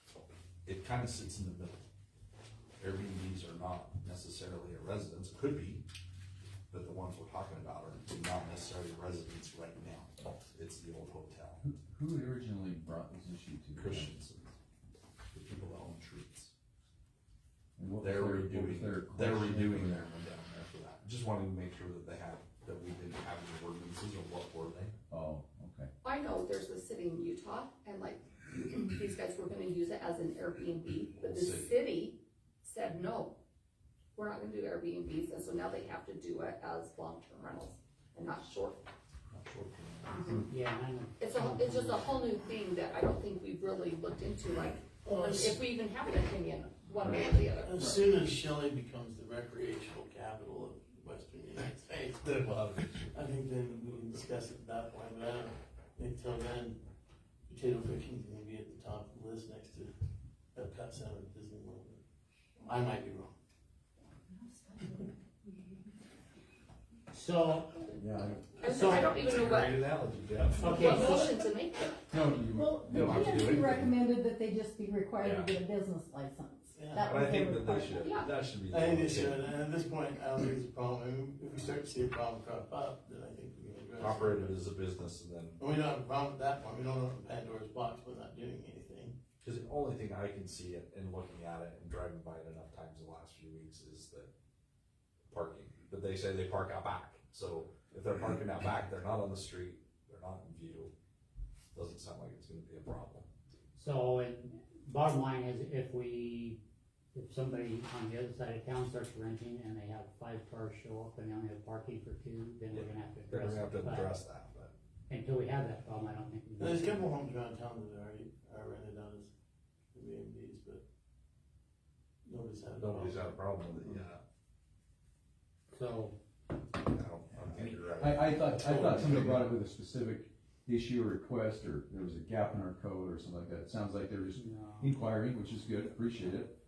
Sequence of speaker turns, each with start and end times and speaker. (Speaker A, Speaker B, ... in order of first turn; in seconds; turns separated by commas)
Speaker A: 0.6-1.8, Speaker A: 2.8-5.8, Speaker A: 6.7-11.6, Speaker B: 11.6-14.1, Speaker A: 13.7-14.6, Speaker A: 15.3-16.5, Speaker B: 17.8-20.0, Speaker A: 18.0-24.9, Speaker B: 25.1-25.9, Speaker C: 26.0-33.4, Speaker A: 31.2-31.7, Speaker C: 34.1-38.8, Speaker A: 39.3-40.3, Speaker C: 40.1-40.4, Speaker D: 40.5-42.1, Speaker C: 41.2-47.7, Speaker E: 45.0-45.6, Speaker E: 47.6-52.4, Speaker A: 52.2-53.1, Speaker E: 53.0-56.8, Speaker E: 57.5-59.9, Speaker E: 60.5-62.0, Speaker E: 62.6-63.3, Speaker D: 67.1-67.9, Speaker B: 68.0-68.4, Speaker C: 68.6-69.8, Speaker D: 68.6-69.2, Speaker A: 68.9-71.0, Speaker D: 70.6-71.3, Speaker C: 70.7-72.0, Speaker E: 70.9-71.2, Speaker B: 72.1-73.8, Speaker F: 72.5-78.1, Speaker A: 72.9-73.8, Speaker A: 75.2-75.5, Speaker E: 76.7-77.2, Speaker A: 77.0-79.5, Speaker C: 78.0-78.3, Speaker E: 78.7-84.6, Speaker A: 84.0-85.6, Speaker E: 85.6-89.2, Speaker A: 89.4-94.3, Speaker A: 95.3-100.9, Speaker A: 101.7-103.3, Speaker D: 103.7-106.6, Speaker D: 107.1-114.1, Speaker A: 112.7-114.7, Speaker D: 115.1-117.1, Speaker E: 116.6-119.3, Speaker E: 119.9-120.8, Speaker E: 122.2-124.0, Speaker A: 122.8-124.2, Speaker D: 125.7-126.1, Speaker A: 126.8-129.5, Speaker B: 128.0-136.6, Speaker D: 134.3-134.9